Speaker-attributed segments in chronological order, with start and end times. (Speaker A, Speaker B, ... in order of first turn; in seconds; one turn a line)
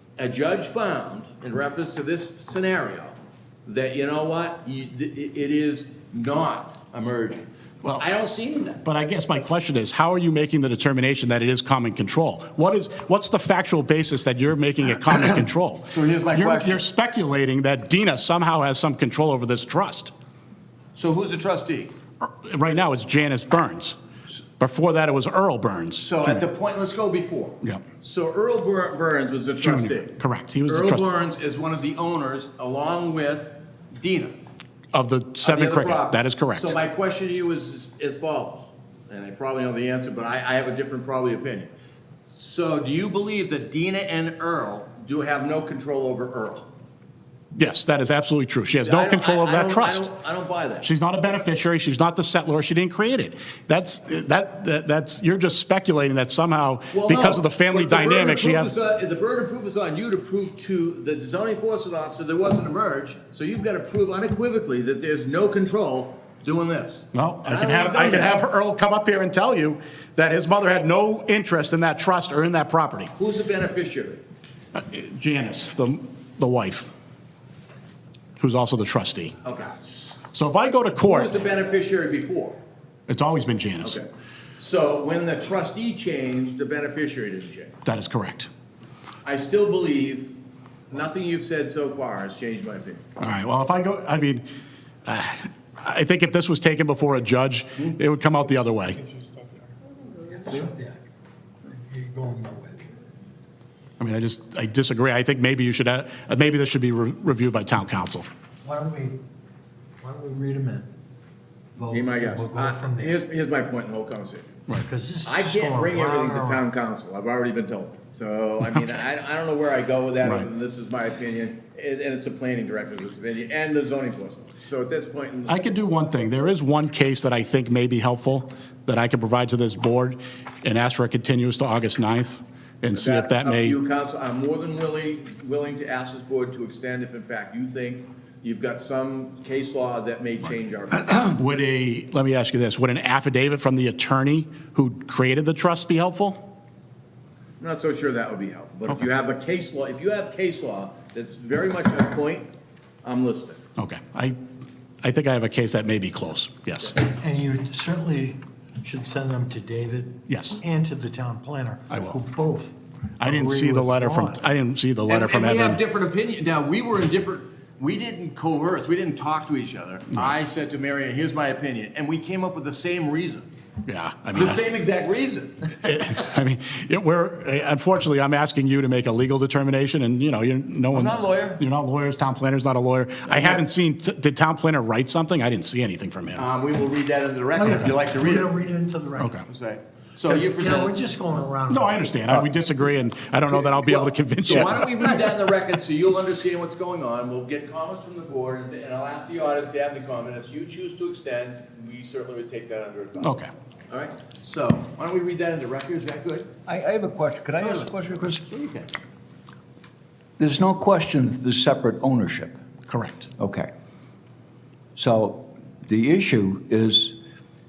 Speaker A: 0.2-7.5
Speaker A: 8.0-8.8
Speaker B: 8.8-20.1
Speaker A: 15.9-16.8
Speaker A: 20.9-21.9
Speaker B: 22.2-24.0
Speaker B: 24.6-26.4
Speaker A: 26.0-34.4
Speaker B: 29.6-31.1
Speaker B: 34.9-36.7
Speaker A: 35.4-41.7
Speaker A: 42.3-46.7
Speaker B: 47.5-50.1
Speaker A: 48.8-50.9
Speaker B: 50.8-58.7
Speaker A: 56.9-68.3
Speaker B: 67.1-73.1
Speaker A: 73.2-74.2
Speaker B: 74.7-76.9
Speaker B: 78.4-79.4
Speaker A: 79.4-80.2
Speaker B: 80.3-81.3
Speaker A: 80.9-82.6
Speaker B: 83.1-84.0
Speaker A: 83.8-84.1
Speaker A: 84.6-87.8
Speaker B: 87.8-88.5
Speaker A: 89.2-90.3
Speaker A: 90.9-93.0
Speaker B: 93.2-94.4
Speaker B: 95.0-99.0
Speaker C: 99.0-99.7
Speaker C: 100.3-101.0
Speaker C: 101.7-102.9
Speaker B: 104.0-108.3
Speaker C: 108.6-109.2
Speaker C: 110.0-110.9
Speaker C: 111.8-113.2
Speaker A: 111.9-114.5
Speaker C: 114.8-116.6
Speaker A: 115.2-125.8
Speaker B: 120.2-120.5
Speaker B: 125.5-133.8
Speaker A: 132.9-141.4
Speaker B: 141.3-146.4
Speaker A: 147.6-152.5
Speaker A: 153.0-153.6
Speaker B: 153.8-154.4
Speaker B: 155.0-156.9
Speaker C: 157.0-164.4
Speaker B: 160.3-160.6
Speaker B: 161.9-162.2
Speaker B: 163.2-165.8
Speaker A: 165.1-173.5
Speaker B: 170.1-170.3
Speaker B: 173.8-174.6
Speaker A: 174.3-176.1
Speaker B: 175.8-186.4
Speaker A: 180.9-181.6
Speaker A: 183.3-183.6
Speaker A: 186.4-188.5
Speaker C: 187.5-189.3
Speaker B: 189.2-189.4
Speaker A: 189.5-190.9
Speaker C: 190.2-192.5
Speaker B: 191.7-195.2
Speaker A: 194.4-206.5
Speaker B: 203.2-203.5
Speaker D: 206.7-208.5
Speaker A: 208.4-208.9
Speaker D: 210.4-212.6
Speaker B: 212.9-213.3
Speaker D: 213.4-213.7
Speaker D: 214.9-217.2